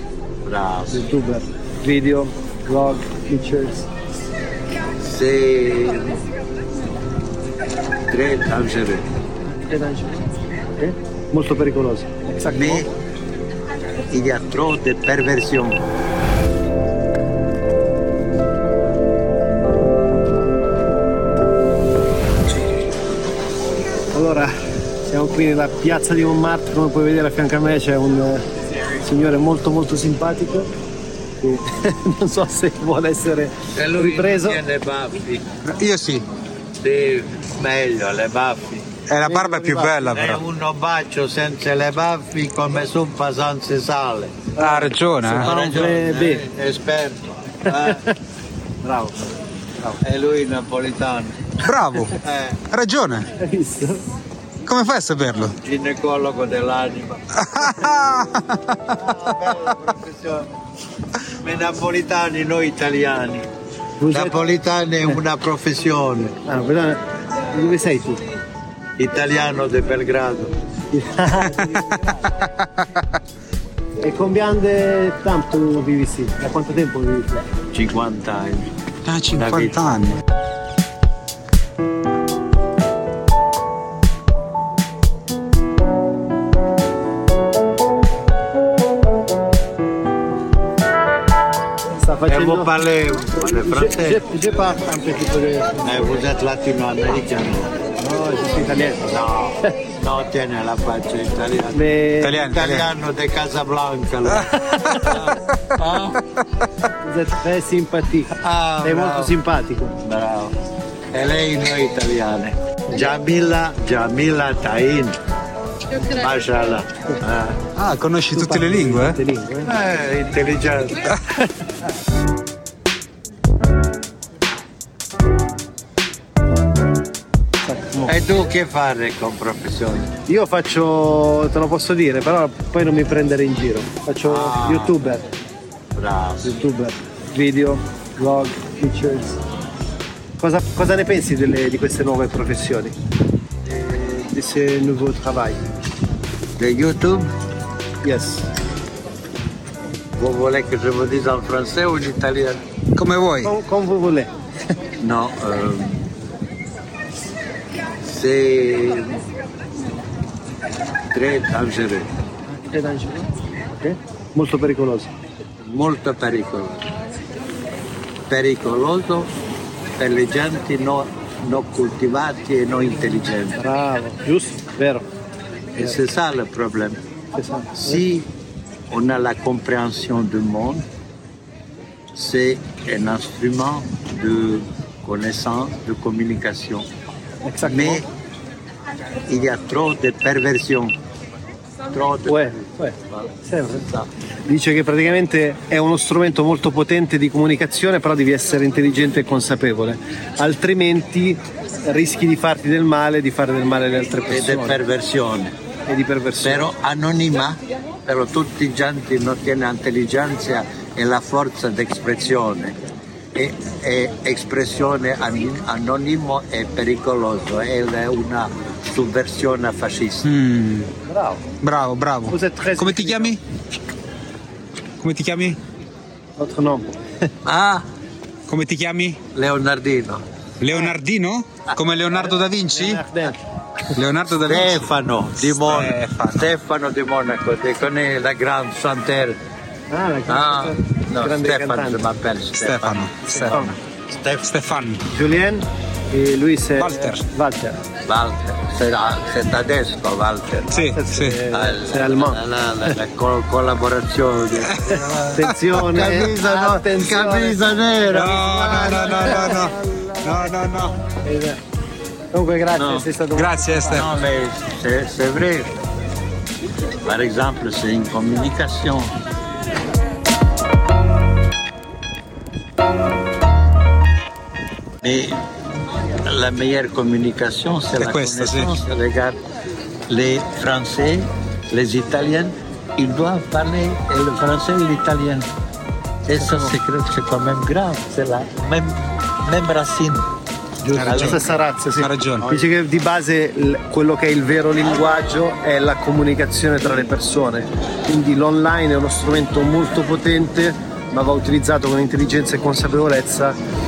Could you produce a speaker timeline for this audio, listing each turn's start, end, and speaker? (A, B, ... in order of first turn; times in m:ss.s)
0:00.4-0:01.0 A
0:00.9-0:03.9 B
0:05.0-0:06.2 A
0:08.1-0:09.0 A
0:09.6-0:12.9 B
0:12.4-0:12.9 A
0:14.1-0:15.8 A
0:24.1-0:24.5 B
0:25.0-0:28.4 B
0:29.0-0:30.7 B
0:31.4-0:34.6 B
0:33.7-0:35.4 A
0:35.6-0:36.2 C
0:36.8-0:38.9 A
0:39.1-0:40.4 C
0:39.2-0:40.1 B
0:40.0-0:44.5 A
0:44.6-0:46.4 B
0:44.6-0:45.5 C
0:45.4-0:48.0 A
0:47.7-0:48.1 B
0:48.8-0:49.1 B
0:50.0-0:51.5 A
0:51.6-0:52.2 C
0:52.1-0:52.6 A
0:52.7-0:53.3 C
0:53.4-0:54.0 B
0:54.6-0:55.6 C
0:55.6-0:57.6 A
0:57.3-0:59.2 C
0:58.8-1:00.5 A
1:01.4-1:03.5 A
1:04.0-1:04.3 B
1:04.1-1:06.4 A
1:06.4-1:07.0 B
1:07.5-1:08.2 B
1:09.0-1:10.5 A
1:10.9-1:12.1 B
1:11.4-1:13.0 C
1:14.0-1:17.4 B
1:17.7-1:18.7 A
1:19.0-1:20.2 C
1:19.2-1:20.1 A
1:32.0-1:32.7 B
1:32.3-1:34.2 A
1:33.4-1:35.7 B
1:35.8-1:37.8 A
1:38.0-1:39.7 B
1:39.1-1:41.8 A
1:41.7-1:42.4 B
1:42.2-1:42.9 C
1:42.3-1:46.2 A
1:44.6-1:45.0 B
1:47.0-1:50.0 B
1:48.4-1:49.4 A
1:50.0-1:50.5 A
1:51.1-1:55.1 A
1:55.9-1:57.6 A
1:57.8-1:59.2 C
1:58.3-1:59.7 B
1:59.6-2:01.2 A
2:07.6-2:08.1 B
2:08.0-2:10.1 A
2:10.3-2:15.2 B
2:14.2-2:15.1 A
2:15.9-2:16.6 A
2:16.4-2:19.4 B
2:20.4-2:22.9 B
2:23.6-2:25.6 B
2:26.6-2:27.3 A
2:28.0-2:28.4 B
2:30.2-2:32.6 A
2:33.0-2:33.5 C
2:33.4-2:34.3 B
2:35.0-2:36.0 A
2:38.0-2:39.2 A
2:41.1-2:42.1 A
2:42.7-2:45.1 B
2:45.7-2:46.9 A
2:48.3-2:49.3 A
2:50.0-2:53.6 A
2:53.6-2:55.0 B
2:55.8-2:57.0 A
2:57.3-2:58.0 B
2:57.7-2:58.3 A
2:58.9-3:00.8 A
3:02.1-3:06.9 A
3:07.4-3:08.0 B
3:07.6-3:08.0 A
3:09.3-3:10.9 A
3:11.9-3:13.3 A
3:12.3-3:13.9 B
3:14.5-3:24.8 B
3:24.3-3:25.5 A
3:25.9-3:26.7 B
3:26.4-3:32.8 A
3:33.3-3:40.3 A
3:40.2-3:40.9 C
3:41.0-3:41.4 B
3:41.6-3:43.4 C
3:42.3-3:43.4 B
3:45.0-3:45.6 C
3:46.4-3:47.0 B
3:47.4-3:47.8 A
3:48.5-3:49.2 C
3:49.3-3:50.2 A
3:50.6-3:53.0 C
3:52.1-3:53.4 B
3:53.9-3:56.5 C
3:54.3-3:59.4 A
3:59.9-4:02.0 B
4:00.3-4:04.5 A
4:02.6-4:03.8 C
4:03.3-4:03.7 B
4:04.4-4:05.0 C
4:05.1-4:07.8 B
4:06.8-4:07.2 C
4:08.0-4:10.8 A
4:10.7-4:11.4 C
4:10.8-4:12.9 B
4:11.5-4:15.0 A
4:14.6-4:16.1 C
4:14.9-4:19.7 B
4:15.7-4:19.1 A
4:18.0-4:21.0 C
4:21.2-4:21.6 B
4:22.3-4:24.1 B
4:22.7-4:23.1 A
4:23.3-4:24.1 C
4:23.9-4:25.7 A
4:27.0-4:29.1 A
4:35.0-4:35.4 A
4:36.2-4:39.4 A
4:38.0-4:38.8 C
4:40.1-4:45.5 A
4:46.2-4:50.2 A
4:46.4-4:46.7 B
4:50.8-5:03.6 B
4:50.9-4:51.6 A
4:50.9-4:51.4 C
4:51.9-4:52.4 C
4:52.4-4:52.7 A